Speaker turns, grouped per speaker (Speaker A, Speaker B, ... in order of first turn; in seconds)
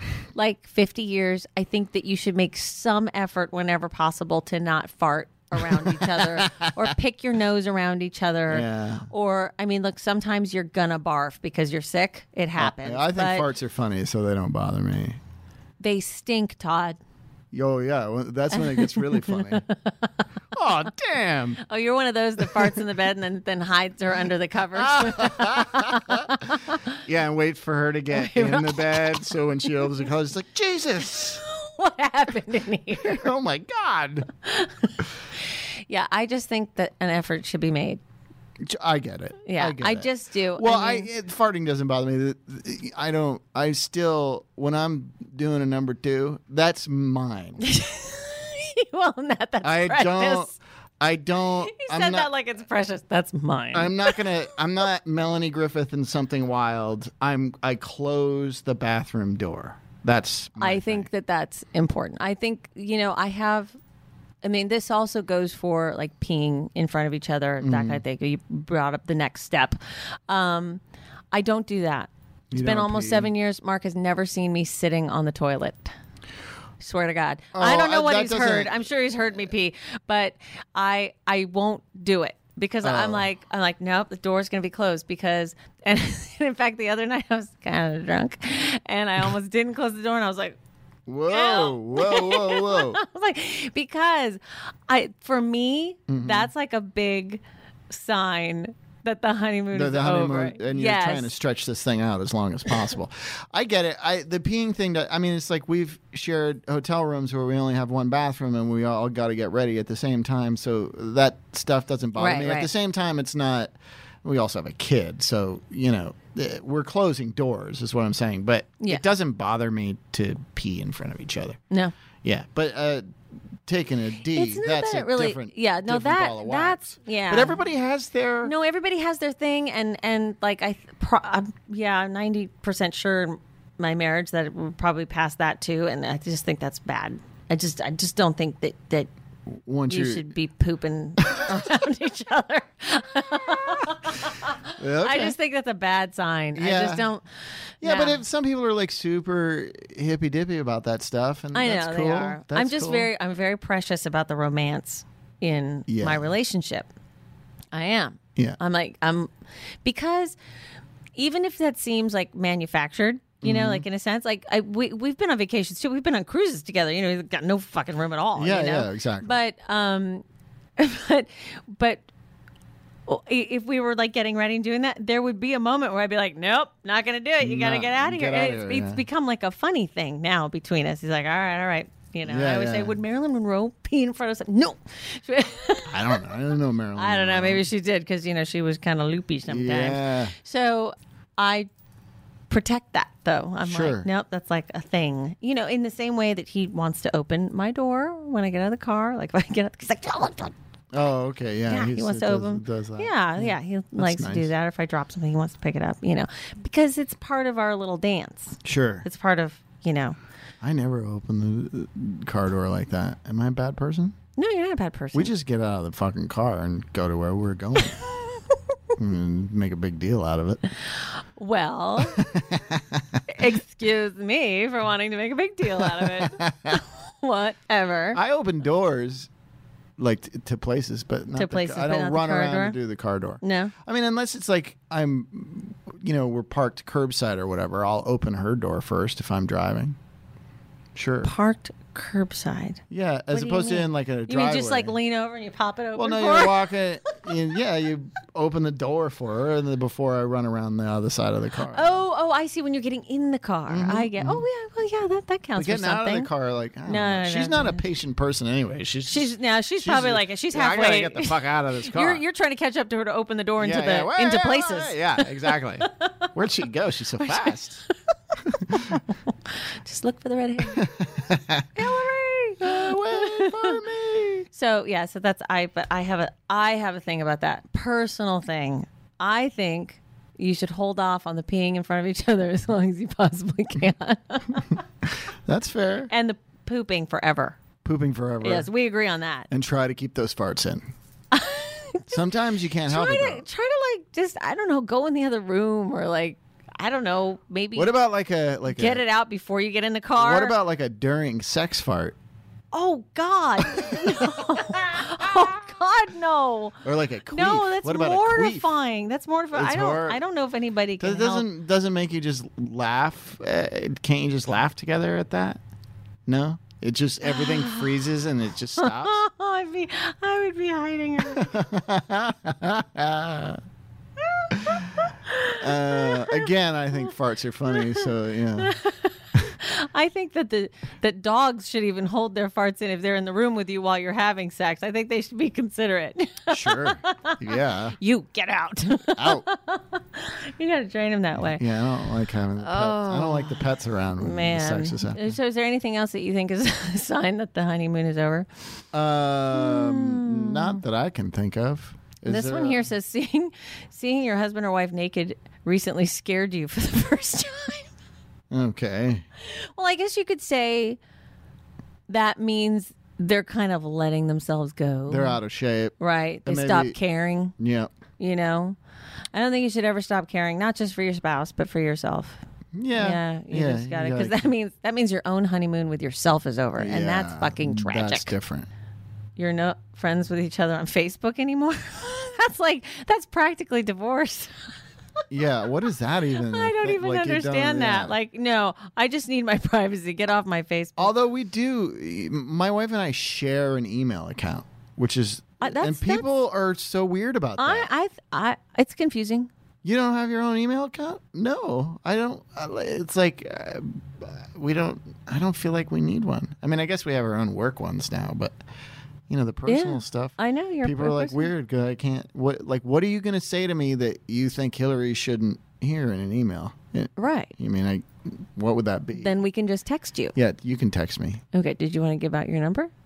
Speaker A: 0.3-13.5, 15.8-17.0, 18.5-20.1, 21.6-26.9, 28.1-30.0, 31.2-33.2, 34.4-38.0, 39.5-41.1, 47.6-50.6, 51.6-54.3, 60.6-63.7, 64.4-69.8, 70.3-70.8, 71.3-75.9, 76.8-90.6, 91.3-101.3, 112.2-112.7, 124.3-127.6, 128.4-139.1, 139.9-147.2, 147.8-148.2, 151.5-156.9, 157.7-159.3, 159.8-160.4, 161.2-170.2, 170.8-172.0, 173.1-186.3, 186.9-191.7, 192.5-200.5, 201.7-210.2, 214.3-215.3, 221.3-222.3, 223.3-228.2, 231.3-232.8, 233.4-233.7, 241.2-247.3, 251.7-256.3, 256.9-257.8, 259.1-266.3, 267.2-267.9, 268.7-270.9, 271.7-273.9, 274.5-284.8, 286.1-287.6, 288.4-289.5, 291.3-292.1, 292.8-297.9, 298.7-300.5, 302.7-311.5, 317.2-318.1, 318.7-321.7, 324.4-326.5, 327.7-341.6, 342.6-348.5, 349.5-350.8, 352.3-357.9, 359.4-361.0, 362.1-365.4, 366.0-367.5, 368.2-368.8, 369.3-372.4, 372.9-378.3, 379.4-384.5, 386.3-391.1, 395.6-396.3, 397.6-399.5, 409.6-411.5, 417.2-417.5, 419.1-420.3, 421.5-422.9
Speaker B: 5.7-6.7, 8.5-9.1, 12.6-15.2, 17.5-19.6, 20.5-21.6, 22.4-22.8, 24.7-26.4, 27.0-31.4, 32.9-34.3, 38.6-47.6, 49.6-52.3, 53.7-61.1, 67.6-68.0, 72.5-73.3, 77.5-78.9, 82.8-83.3, 91.1-93.0, 96.1-96.5, 99.7-113.7, 114.2-121.6, 122.2-123.0, 123.7-128.5, 139.6-140.3, 144.8-145.3, 146.6-147.1, 147.8-153.1, 155.9-156.3, 163.4-163.8, 168.3-169.4, 177.4-179.0, 182.2-183.0, 185.9-187.7, 189.5-190.3, 193.6-194.1, 200.9-204.5, 208.6-209.1, 210.6-214.2, 215.1-218.0, 219.0-220.6, 222.1-223.2, 225.8-226.8, 228.1-229.3, 230.0-239.9, 240.9-241.3, 242.9-244.9, 245.9-252.0, 253.7-254.4, 255.6-262.2, 263.6-267.8, 268.4-269.0, 270.6-271.9, 272.6-274.4, 285.2-286.1, 287.8-288.7, 289.5-290.8, 292.1-293.4, 297.7-299.0, 300.1-302.1, 303.8-304.2, 306.8-308.7, 309.5-310.2, 311.0-315.6, 316.3-319.2, 321.2-323.6, 324.5-328.8, 336.5-338.0, 339.2-339.4, 341.4-345.3, 348.9-352.9, 358.5-359.2, 365.1-365.9, 366.4-367.0, 367.6-367.9, 372.7-374.4, 376.8-378.7, 385.3-388.1, 391.0-397.9, 399.8-408.6, 409.3-419.3, 420.3-421.4